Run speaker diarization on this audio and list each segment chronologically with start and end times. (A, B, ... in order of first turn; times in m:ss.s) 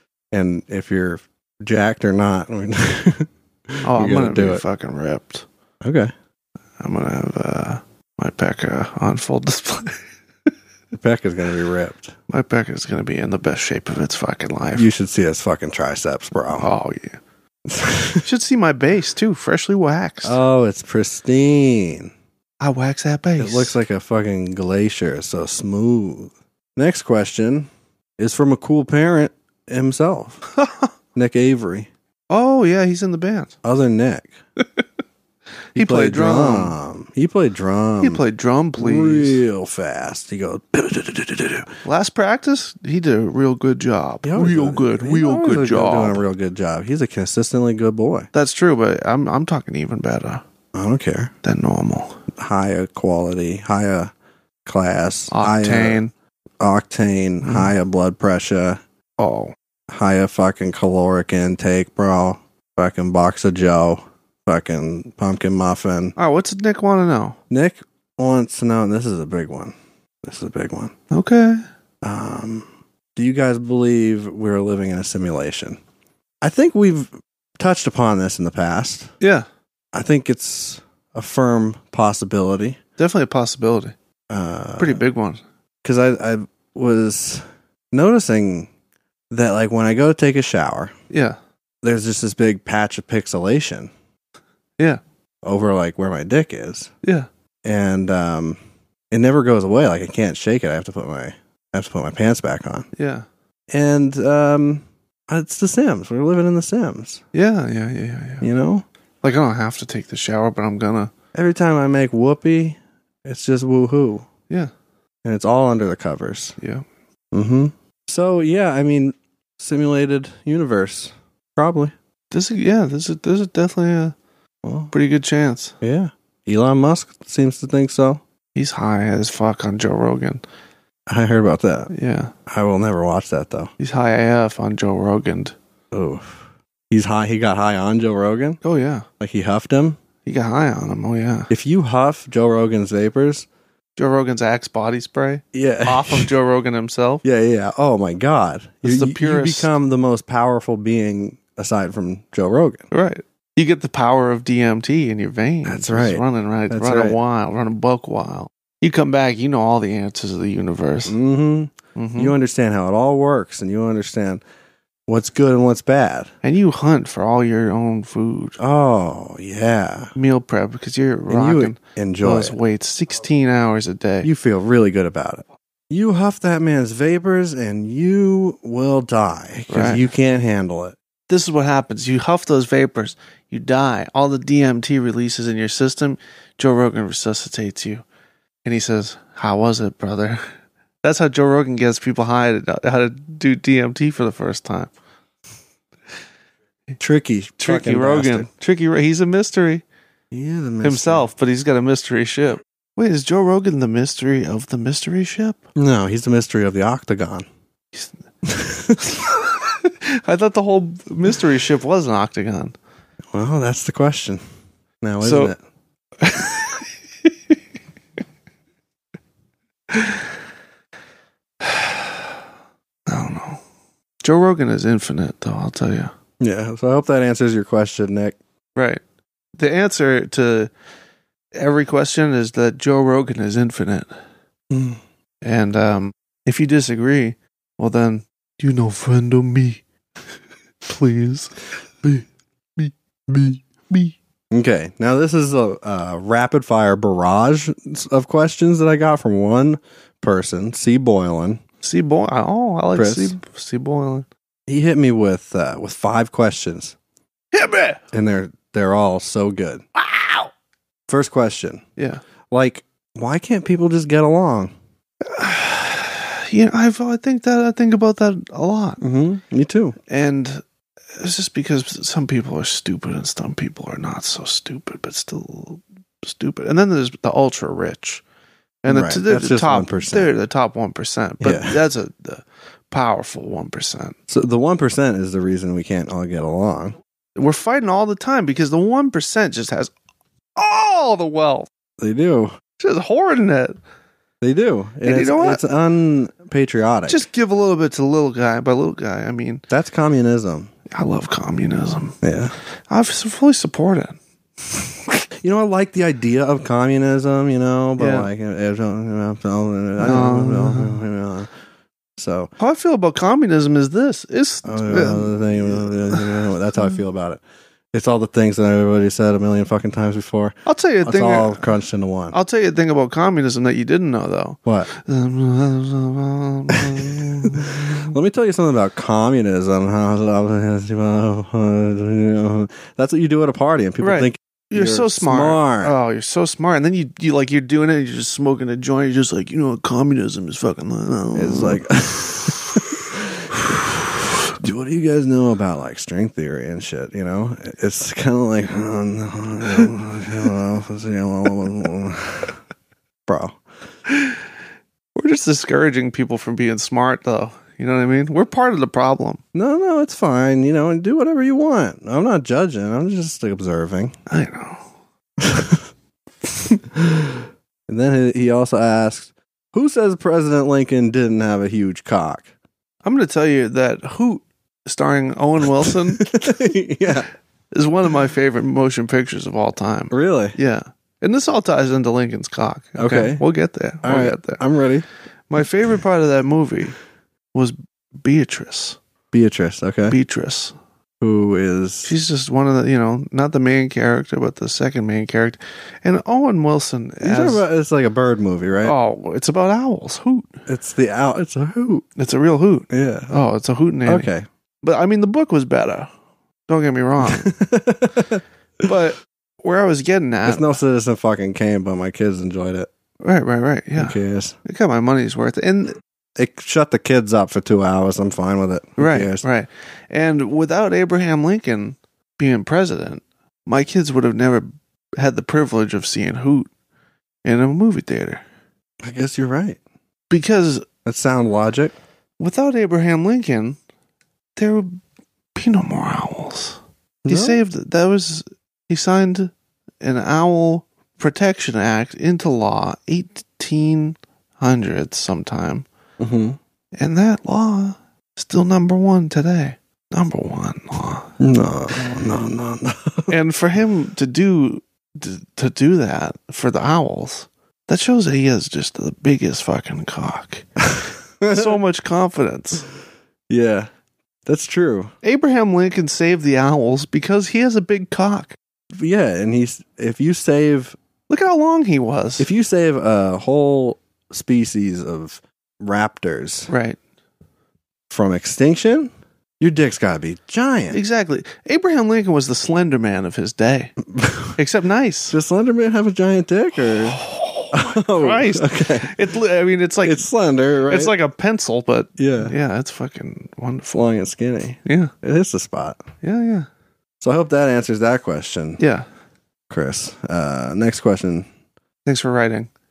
0:00.3-0:04.6 A
0:03.8-0:05.4 B
0:05.8-0:06.1 A
0:06.8-0:10.0 B
0:10.9-0:12.1 A
0:12.3-0:14.9 B
0:14.7-0:16.7 A
0:16.6-0:17.2 B
0:17.6-0:18.3 A
0:18.2-0:20.4 B
0:20.2-0:22.1 A
0:22.6-0:23.8 B
0:23.4-0:30.4 A
0:30.6-0:30.9 B
0:31.2-0:31.9 A
0:32.3-0:33.5 B
0:33.6-0:34.3 A
0:34.6-0:34.8 B
0:35.7-0:36.8 B
0:35.7-0:38.2 A
0:38.0-0:39.4 B
0:38.8-0:41.7 A
0:41.8-0:46.2 B
0:44.2-0:48.3 A
0:48.3-0:50.4 B
0:50.7-0:51.3 A
0:51.4-0:52.2 B
0:52.3-0:54.1 A
0:54.6-0:56.0 A
0:55.3-0:56.1 B
0:56.6-0:58.8 A
0:57.4-0:57.7 B
0:59.2-0:59.5 B
0:59.9-1:06.1 A
1:06.2-1:07.4 B
1:07.5-1:10.9 A
1:11.1-1:11.6 B
1:12.0-1:15.8 A
1:16.4-1:19.1 A
1:19.2-1:19.4 B
1:19.9-1:22.8 A
1:23.0-1:23.9 B
1:24.3-1:25.0 A
1:24.8-1:25.4 B
1:25.8-1:28.7 A
1:29.3-1:31.0 A
1:31.1-1:31.4 B
1:31.8-1:33.9 A
1:35.4-1:36.9 A
1:37.6-1:38.6 A
1:39.1-1:42.9 A
1:43.0-1:43.2 B
1:43.7-1:47.2 A
1:47.3-1:48.4 B
1:48.4-1:48.8 A
1:49.2-1:51.1 B
1:51.3-1:54.3 A
1:55.2-1:56.6 A
1:57.3-2:01.9 A
2:02.3-2:04.1 B
2:04.6-2:04.9 A
2:04.9-2:05.7 B
2:05.8-2:08.2 A
2:08.5-2:10.4 B
2:11.1-2:11.9 A
2:11.9-2:12.3 B
2:12.5-2:13.7 A
2:13.8-2:15.5 B
2:15.9-2:18.6 A
2:18.6-2:19.0 B
2:19.2-2:20.0 A
2:20.2-2:21.5 B
2:21.5-2:23.5 A
2:24.0-2:27.2 B
2:25.5-2:26.3 A
2:27.2-2:32.8 A
2:28.8-2:29.7 B
2:32.9-2:41.2 B
2:35.6-2:37.2 A
2:41.0-2:44.4 A
2:42.0-2:42.3 B
2:45.1-2:46.3 A
2:46.4-2:48.6 B
2:48.6-2:50.1 A
2:50.2-2:54.3 B
2:51.3-2:52.6 A
2:54.2-3:01.0 A
2:59.7-3:00.0 B
3:01.3-3:08.0 B
3:08.6-3:10.4 B
3:11.0-3:14.9 B
3:17.0-3:18.5 A
3:17.6-3:19.8 B
3:20.3-3:21.3 A
3:20.8-3:25.6 B
3:25.8-3:27.5 A
3:28.4-3:29.2 A
3:29.1-3:32.7 B
3:33.3-3:34.4 A
3:35.0-3:35.6 A
3:35.2-3:35.5 B
3:36.2-3:36.8 B
3:39.9-3:40.2 B
3:41.6-3:42.3 B
3:43.1-3:43.6 B
3:44.2-3:46.1 B
3:46.4-3:48.4 A
3:48.8-3:49.0 B
3:49.6-3:50.7 B
3:51.5-3:54.1 B
3:54.7-3:55.0 A
3:55.4-3:59.8 B
4:00.8-4:02.2 B
4:02.8-4:04.1 B
4:04.5-4:11.6 A
4:11.8-4:14.2 B
4:12.9-4:13.3 A
4:14.7-4:17.0 A
4:17.5-4:18.0 B
4:18.1-4:19.8 A
4:20.0-4:20.5 B
4:21.1-4:21.8 A
4:22.0-4:22.2 B
4:22.5-4:24.7 A
4:25.2-4:29.0 B
4:29.0-4:30.0 A
4:30.1-4:30.6 B
4:31.2-4:38.2 B
4:38.8-4:44.2 B
4:38.9-4:40.3 A
4:41.4-4:41.8 A
4:44.3-4:47.0 A
4:47.4-4:49.9 B
4:50.6-4:51.7 B
4:52.0-4:52.6 A
4:52.8-4:53.8 B
4:54.4-4:57.2 A
4:55.0-4:55.6 B
4:57.1-4:59.6 B
4:59.7-5:00.7 A
5:00.9-5:02.2 B
5:02.2-5:02.5 A
5:02.9-5:04.2 B
5:05.3-5:11.5 A
5:08.0-5:08.3 B
5:10.0-5:11.0 B
5:12.2-5:12.5 A
5:12.6-5:16.4 B
5:14.6-5:22.4 A
5:20.6-5:21.7 B
5:22.3-5:28.1 B
5:26.7-5:35.9 A
5:34.0-5:41.8 B
5:41.3-5:43.9 A
5:44.6-5:52.6 A
5:53.3-5:53.6 A
5:54.1-5:54.4 B
5:55.2-5:59.4 B
5:59.5-6:04.2 A
6:04.3-6:04.8 B
6:05.4-6:05.8 A
6:06.9-6:12.5 A
6:13.0-6:16.3 B
6:15.8-6:17.3 A
6:17.7-6:24.6 B
6:20.1-6:20.6 A
6:23.0-6:23.4 A
6:24.0-6:25.0 A
6:25.5-6:27.0 B
6:27.5-6:29.0 B
6:29.3-6:30.2 A
6:30.1-6:30.7 B
6:31.2-6:32.1 A
6:32.0-6:37.6 B
6:37.2-6:38.9 A
6:38.8-6:40.6 B
6:40.7-6:42.0 A
6:42.2-6:44.3 B
6:42.9-6:43.3 A
6:44.0-6:44.4 A
6:44.8-6:46.1 B
6:46.7-6:47.5 B
6:47.2-6:48.9 A
6:48.8-6:50.8 B
6:50.4-6:52.9 A
6:53.2-6:56.0 B
6:54.0-6:54.6 A
6:56.4-6:59.4 A
6:59.0-7:06.7 B
7:07.4-7:08.4 B
7:09.0-7:09.8 A
7:10.3-7:10.8 B
7:11.0-7:11.9 A
7:12.4-7:13.8 B
7:14.6-7:15.0 B
7:15.5-7:25.8 B
7:17.2-7:17.6 A
7:26.2-7:26.6 A
7:27.0-7:31.3 B
7:31.4-7:33.3 A
7:33.3-7:40.6 B
7:40.8-7:41.8 A
7:41.5-7:42.9 B
7:43.5-7:43.9 A
7:44.4-7:45.1 A
7:45.2-7:48.6 B
7:48.9-7:51.0 A
7:51.3-7:52.5 B
7:52.4-7:56.7 A
7:56.7-7:57.0 B
7:58.1-8:01.0 A
8:00.9-8:03.9 B
8:04.1-8:04.5 A
8:04.6-8:05.4 B
8:05.3-8:07.2 A
8:06.9-8:10.3 B
8:07.7-8:09.1 A
8:10.0-8:11.1 A
8:10.9-8:14.0 B
8:12.2-8:12.6 A
8:13.9-8:16.0 A
8:14.8-8:15.1 B
8:16.2-8:16.7 B
8:17.2-8:18.8 A
8:18.8-8:19.0 B
8:19.7-8:21.5 A
8:22.0-8:22.7 B